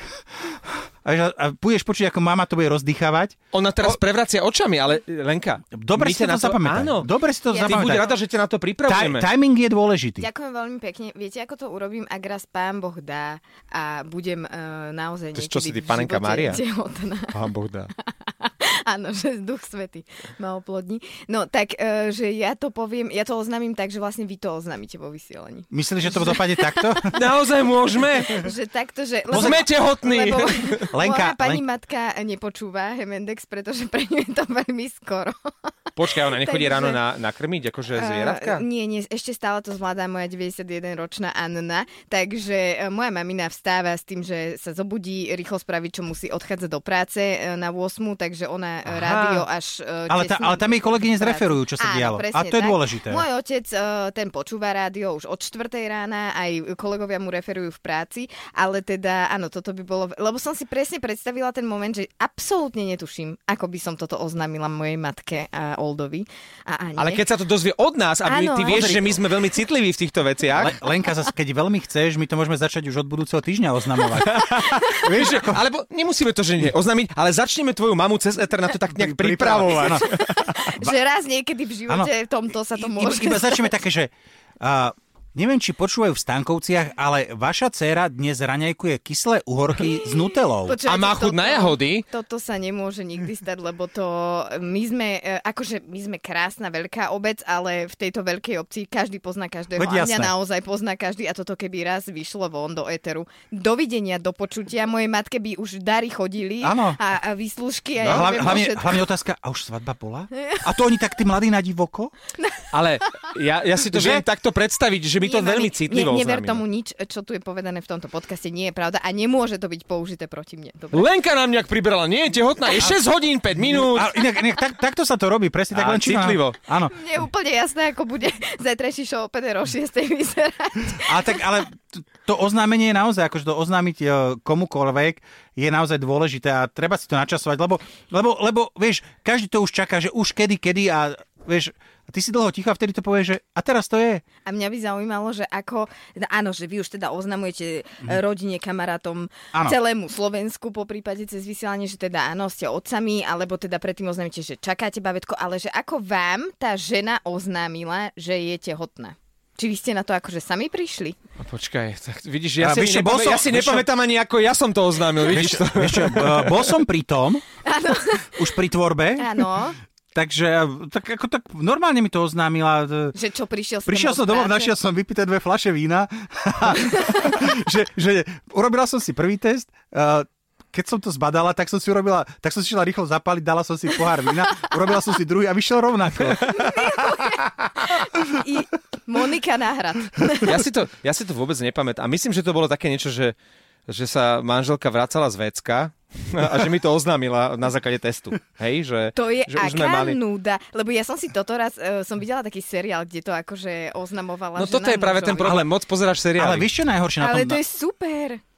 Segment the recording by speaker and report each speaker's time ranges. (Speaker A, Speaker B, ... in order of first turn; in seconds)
Speaker A: 1.0-4.0, 5.7-8.1, 8.8-10.3, 25.7-27.2, 29.3-29.7, 30.9-31.6, 49.1-49.4, 50.1-53.2, 68.7-69.2, 70.6-75.6, 78.9-80.1, 82.8-90.8, 99.8-100.3, 106.6-107.0, 108.0-112.1, 113.9-114.2, 123.5-127.1, 130.9-144.2, 162.6-163.9, 165.2-167.4, 168.3-169.4, 170.1-173.2, 173.9-186.9, 206.4-207.6
Speaker B: 3.5-7.1, 7.6-9.3, 15.3-16.6, 17.3-17.9, 27.1-28.5, 29.3-30.9, 36.0-38.6, 67.0-70.8, 74.1-80.7, 90.8-92.1, 108.0-108.6, 112.7-116.6, 120.9-124.2, 125.7-126.6, 161.4-166.8, 186.4-186.7, 190.4-193.3, 193.9-200.2, 204.6-206.7
Speaker C: 7.5-8.2, 10.2-17.4, 18.0-27.1, 28.2-35.5, 36.2-37.0, 37.9-67.2, 68.2-69.0, 79.8-83.8, 90.0-109.0, 110.4-110.7, 115.2-121.1, 126.8-131.4, 144.4-161.2, 167.6-168.4, 169.2-169.8, 173.1-174.7, 186.4-190.6, 199.1-205.6, 207.2-208.4